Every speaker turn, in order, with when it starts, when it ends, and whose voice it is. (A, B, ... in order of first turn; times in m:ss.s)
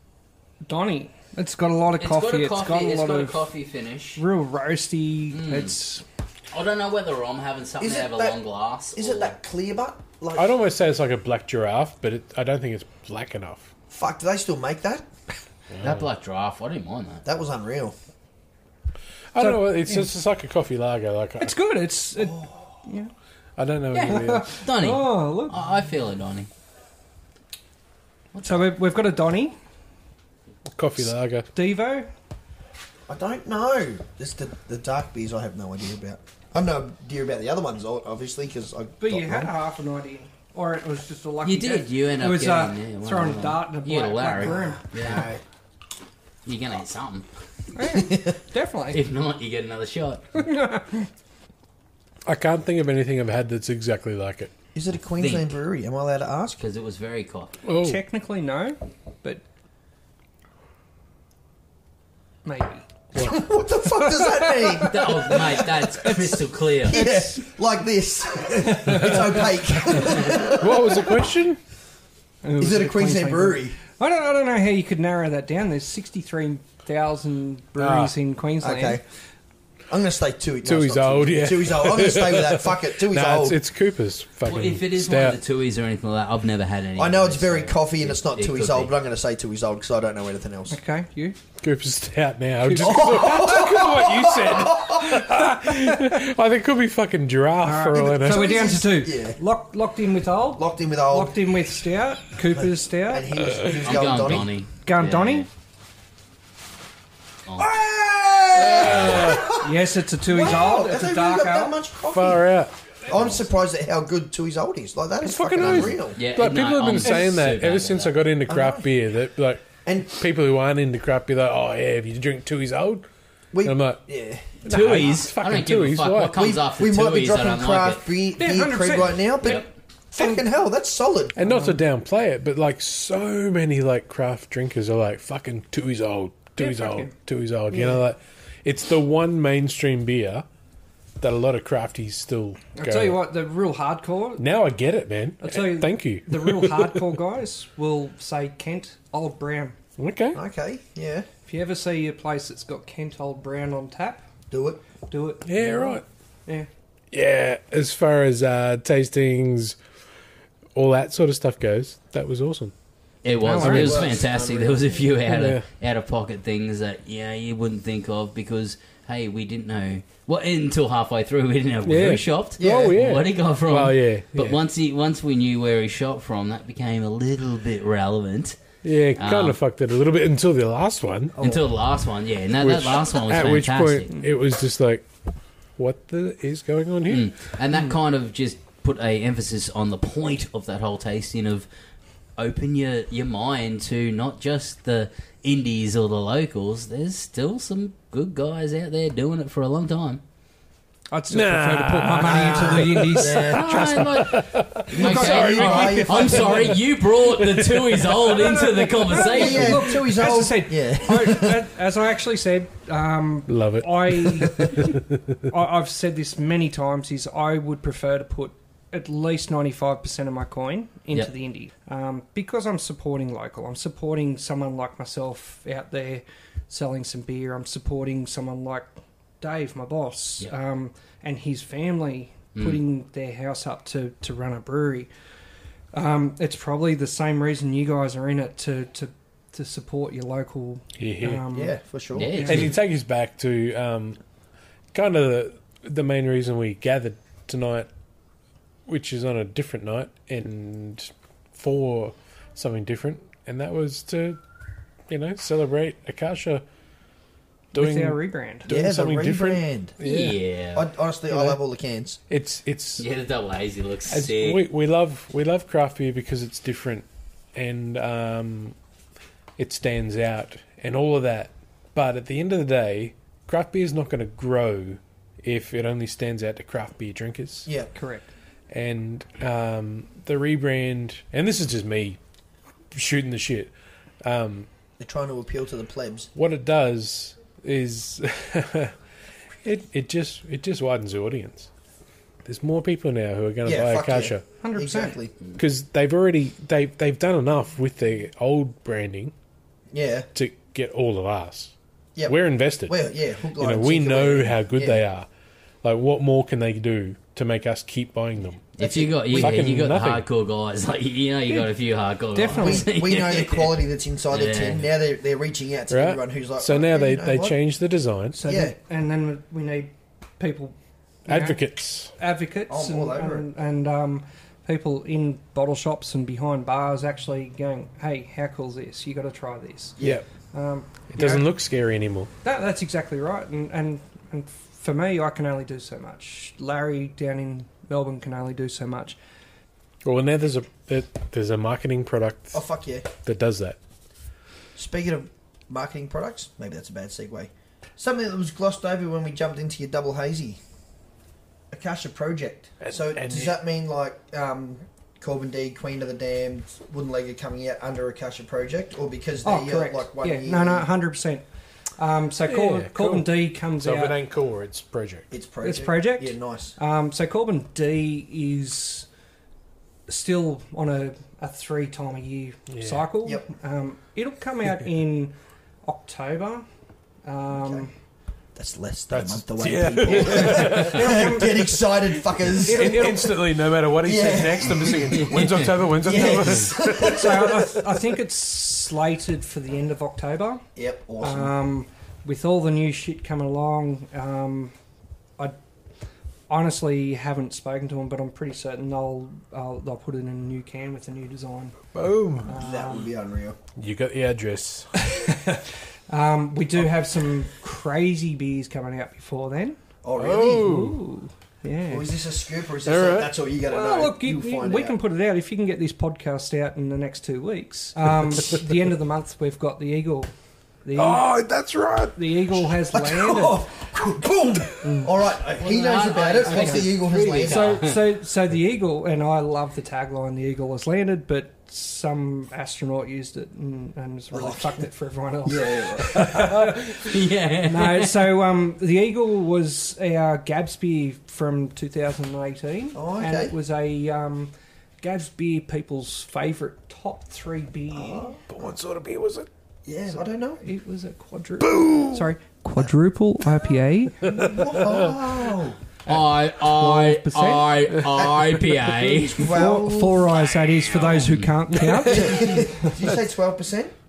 0:00.6-0:03.5 A
0:02.0-0:04.2 B
0:04.2-0:06.0 A
0:05.3-0:05.8 B
0:06.5-0:09.4 B
0:07.8-0:08.4 C
0:08.9-0:10.5 C
0:10.4-0:13.7 D
0:13.9-0:15.1 C
0:15.7-0:16.0 D
0:15.8-0:17.2 B
0:17.2-0:18.0 C
0:19.3-0:21.5 D
0:19.4-0:20.1 A
0:21.4-0:23.1 A
0:22.2-0:22.5 C
0:23.6-0:24.5 D
0:23.9-0:26.5 B
0:24.1-0:25.6 A
0:28.3-0:28.6 B
0:28.4-0:29.6 A
0:30.7-0:31.5 D
0:31.5-0:32.1 A
0:33.1-0:39.5 C
0:39.0-0:44.9 A
0:41.4-0:45.3 B
0:44.4-0:45.4 C
0:46.4-0:47.3 B
0:47.8-0:49.0 A
0:48.9-0:50.3 B
0:50.4-0:51.1 A
0:52.3-0:54.5 D
0:54.8-0:56.6 C
0:55.2-0:55.5 B
0:56.6-0:57.6 B
0:57.6-0:58.0 D
0:57.8-0:59.4 A
1:02.4-1:07.4 A
1:03.2-1:06.2 C
1:04.8-1:07.0 B
1:06.8-1:11.2 C
1:08.6-1:09.4 A
1:10.2-1:11.6 D
1:12.4-1:19.0 A
1:12.6-1:13.8 C
1:17.8-1:18.1 D
1:18.6-1:19.0 C
1:19.9-1:23.6 C
1:20.6-1:25.4 D
1:24.4-1:29.0 B
1:27.0-1:30.8 C
1:30.7-1:31.4 A
1:31.6-1:38.7 D
1:32.6-1:33.3 A
1:32.8-1:35.6 C
1:37.6-1:43.3 A
1:38.1-1:39.4 C
1:40.6-1:41.4 C
1:43.1-1:44.5 C
1:43.4-1:43.8 D
1:43.7-1:45.5 B
1:44.8-1:45.5 A
1:47.6-1:49.7 C
1:48.6-1:49.5 D
1:48.7-1:49.4 B
1:49.5-1:51.8 A
1:50.2-1:52.4 C
1:52.1-1:52.7 D
1:53.1-1:56.2 C
1:53.1-1:53.5 B
1:55.2-2:03.1 D
1:55.6-1:58.2 B
1:58.5-1:58.9 C
1:59.8-2:00.2 C
2:03.5-2:04.4 C
2:03.6-2:04.0 D
2:04.6-2:06.3 D
2:04.7-2:08.0 B
2:06.3-2:11.4 C
2:08.4-2:09.6 A
2:09.4-2:09.7 B
2:10.2-2:10.4 A
2:11.4-2:20.5 D
2:11.4-2:11.8 A
2:16.6-2:17.1 A
2:17.7-2:18.0 C
2:21.2-2:23.2 D
2:22.8-2:24.5 A
2:24.4-2:27.0 D
2:25.4-2:29.8 A
2:30.0-2:30.4 D
2:30.3-2:31.3 C
2:31.5-2:34.2 A
2:34.5-2:34.8 C
2:35.1-2:36.7 A
2:35.5-2:36.0 D
2:37.1-2:39.8 D
2:40.8-2:42.7 D
2:43.2-2:58.6 B
2:43.4-2:44.1 A
2:43.6-2:44.0 D
2:43.6-2:45.1 C
2:45.3-2:45.6 D
2:51.8-2:54.6 D
2:52.6-2:53.0 C
2:58.8-3:01.4 D
2:59.2-2:59.6 B
3:01.4-3:01.7 C
3:01.4-3:04.1 B
3:02.6-3:05.1 D
3:05.8-3:07.3 D
3:07.1-3:11.7 B
3:12.4-3:20.2 B
3:21.1-3:24.3 A
3:21.3-3:26.8 D
3:22.3-3:23.9 C
3:23.2-3:29.9 B
3:24.9-3:26.8 C
3:25.0-3:26.1 A
3:27.4-3:28.1 D
3:28.2-3:55.1 A
3:29.1-3:31.6 C
3:33.5-3:35.4 D
3:55.9-4:01.8 A
4:01.0-4:01.4 D
4:01.5-4:02.4 C
4:02.1-4:02.8 B
4:02.3-4:02.7 A
4:02.4-4:04.2 D
4:04.9-4:07.9 D
4:08.9-4:14.4 D
4:15.1-4:16.6 D
4:17.7-4:20.3 D
4:17.7-4:18.7 A
4:18.7-4:20.0 C
4:20.0-4:20.9 B
4:20.0-4:20.3 A
4:20.7-4:22.2 C
4:22.3-4:23.0 D
4:23.0-4:24.6 B
4:24.1-4:28.8 D
4:29.6-4:37.7 D
4:37.7-4:37.9 C
4:37.9-4:38.3 A
4:38.7-4:42.2 D
4:42.9-4:43.7 D
4:44.2-4:44.7 D
4:45.0-4:46.3 C
4:46.4-4:49.0 D
4:49.6-4:51.7 D
4:52.4-4:54.4 D
4:53.6-4:55.4 C
4:54.6-4:55.2 A
4:55.6-4:59.3 D
4:59.9-5:00.3 C
5:00.3-5:01.7 D
5:02.2-5:05.0 C
5:02.3-5:03.0 D
5:03.6-5:05.3 D
5:05.8-5:08.6 D
5:08.7-5:14.8 B
5:08.8-5:09.6 C
5:09.4-5:10.2 D
5:11.5-5:11.7 A
5:12.3-5:12.9 A
5:12.5-5:17.6 C
5:15.9-5:18.4 D
5:18.3-5:18.8 C
5:18.4-5:21.6 A
5:21.3-5:22.1 D
5:22.2-5:30.0 A
5:22.7-5:23.5 C
5:30.0-5:30.2 C
5:30.0-5:30.2 D
5:30.5-5:31.5 A
5:31.1-5:32.3 D
5:32.4-5:39.2 A
5:40.0-5:42.6 D
5:42.5-5:43.1 C
5:43.2-5:43.8 D
5:44.8-5:50.6 C
5:51.7-6:00.9 C
5:52.8-5:53.6 D
5:59.4-6:01.4 A
6:02.0-6:04.2 A
6:02.5-6:05.3 D
6:05.3-6:06.7 C
6:05.6-6:09.1 A
6:10.1-6:16.6 A
6:12.7-6:13.1 D
6:17.2-6:17.9 A
6:18.6-6:23.2 C
6:19.1-6:21.6 D
6:20.1-6:21.8 A
6:22.6-6:27.2 D
6:22.6-6:23.4 A
6:24.0-6:27.7 C
6:25.1-6:25.6 B
6:26.8-6:30.6 A
6:30.8-6:31.5 C
6:31.2-6:34.7 A
6:36.5-6:41.8 A
6:41.9-6:42.5 D
6:42.4-6:43.1 A
6:42.5-6:43.6 C
6:43.8-6:44.9 D
6:45.0-6:49.8 A
6:50.0-6:50.7 C
6:50.2-6:51.0 D
6:50.5-6:52.1 A
6:51.9-6:55.0 C
6:52.8-6:53.3 D
6:53.7-7:00.3 A
7:00.8-7:01.3 A
7:01.0-7:02.7 D
7:02.2-7:03.6 A
7:02.9-7:07.9 C
7:04.8-7:05.1 A
7:05.6-7:08.1 B
7:06.4-7:17.1 A
7:14.3-7:14.8 C
7:15.4-7:16.4 C
7:16.2-7:18.3 B
7:17.6-7:28.4 A
7:23.0-7:23.5 C
7:27.9-7:28.4 C
7:28.5-7:29.5 D
7:29.8-7:30.6 C
7:30.1-7:34.6 A
7:31.6-7:32.3 D
7:34.2-7:35.8 C
7:34.2-7:35.1 D
7:36.1-7:37.8 A
7:36.1-7:39.6 B
7:39.4-7:40.3 C
7:39.5-7:43.1 A
7:40.3-7:41.8 B
7:42.0-7:43.9 C